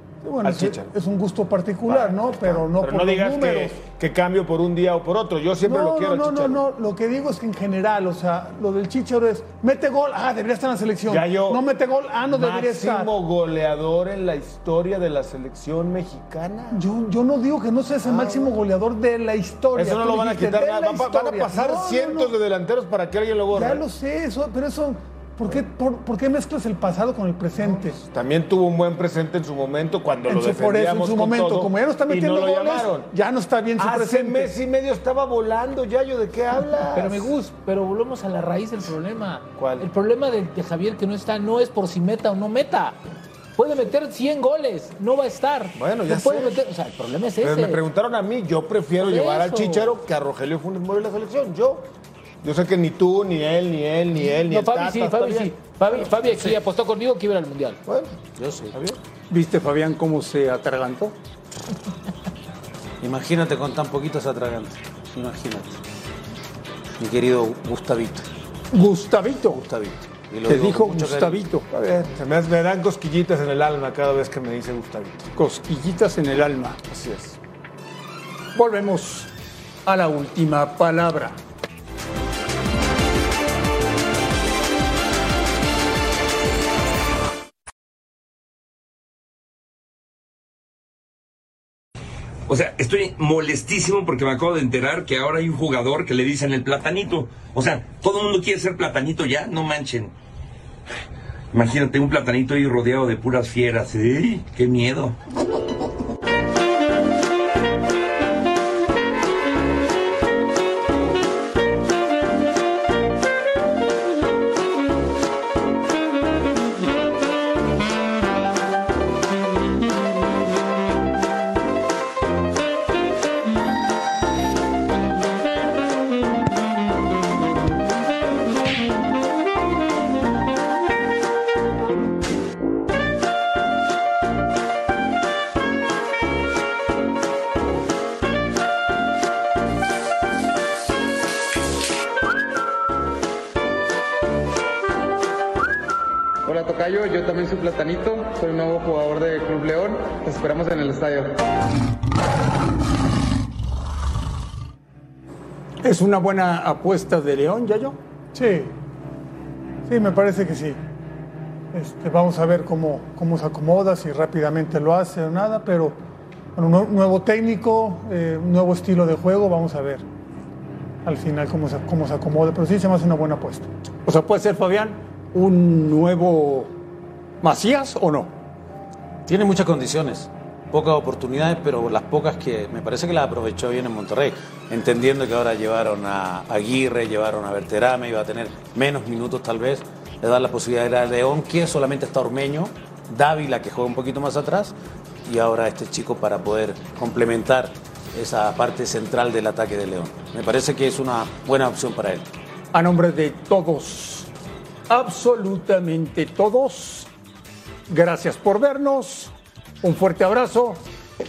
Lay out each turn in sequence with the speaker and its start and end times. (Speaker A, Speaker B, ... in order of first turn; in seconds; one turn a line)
Speaker A: 0.2-3.8
Speaker B: 0.4-0.9
Speaker B: 1.9-6.6
Speaker A: 5.6-13.1
Speaker B: 11.1-11.6
Speaker B: 12.3-16.9
Speaker A: 16.7-22.4
Speaker B: 18.0-18.6
Speaker B: 19.8-23.8
Speaker A: 23.5-28.0
Speaker B: 27.5-33.1
Speaker A: 30.3-34.5
Speaker B: 33.8-37.3
Speaker C: 36.9-43.0
Speaker B: 39.6-39.9
Speaker C: 43.6-47.8
Speaker B: 45.8-46.5
Speaker B: 47.4-51.9
Speaker C: 49.0-49.9
Speaker B: 52.4-55.5
Speaker C: 54.2-57.8
Speaker B: 57.9-58.2
Speaker D: 58.4-58.8
Speaker B: 58.7-59.0
Speaker E: 59.3-61.1
Speaker D: 63.0-65.8
Speaker D: 67.0-68.3
Speaker E: 68.7-69.6
Speaker D: 69.5-71.4
Speaker E: 70.5-71.7
Speaker B: 71.7-75.3
Speaker E: 75.4-76.8
Speaker B: 76.9-77.4
Speaker E: 78.5-79.3
Speaker E: 79.8-81.4
Speaker F: 92.5-100.1
Speaker F: 101.5-105.2
Speaker G: 146.4-151.4
Speaker E: 155.8-158.0
Speaker A: 158.3-158.7
Speaker A: 159.9-160.8
Speaker A: 161.7-166.0
Speaker A: 166.6-170.1
Speaker A: 171.0-173.7
Speaker E: 174.1-176.7
Speaker E: 177.4-178.3
Speaker D: 179.3-202.3
Speaker E: 202.7-204.3
Speaker E: 204.9-207.1
Speaker E: 207.9-210.8